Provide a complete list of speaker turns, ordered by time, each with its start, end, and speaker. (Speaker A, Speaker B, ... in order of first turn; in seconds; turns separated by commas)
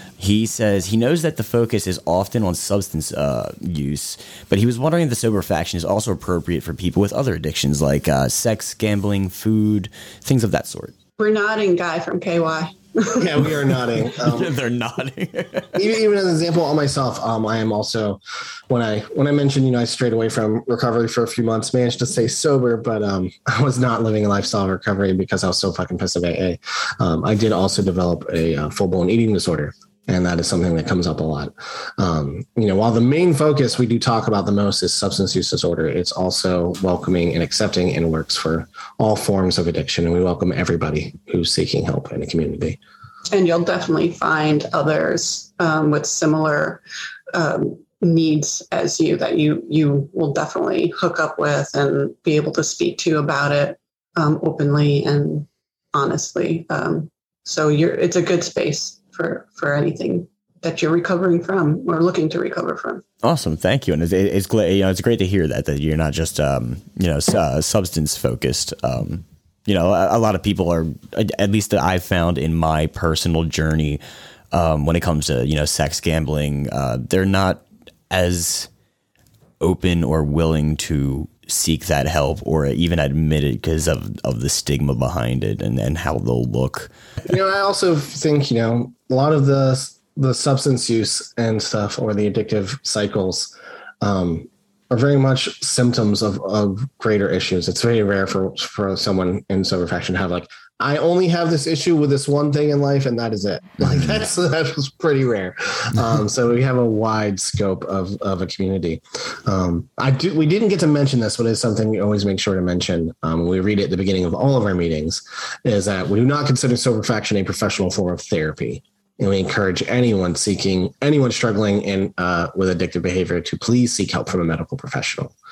Speaker A: 0.2-10.9, Speaker B: 11.2-13.2, Speaker C: 13.2-14.5, Speaker A: 14.1-15.8, Speaker C: 15.7-42.8, Speaker B: 43.3-46.8, Speaker B: 47.3-63.0, Speaker A: 63.2-78.7, Speaker A: 79.6-86.9, Speaker C: 87.3-125.3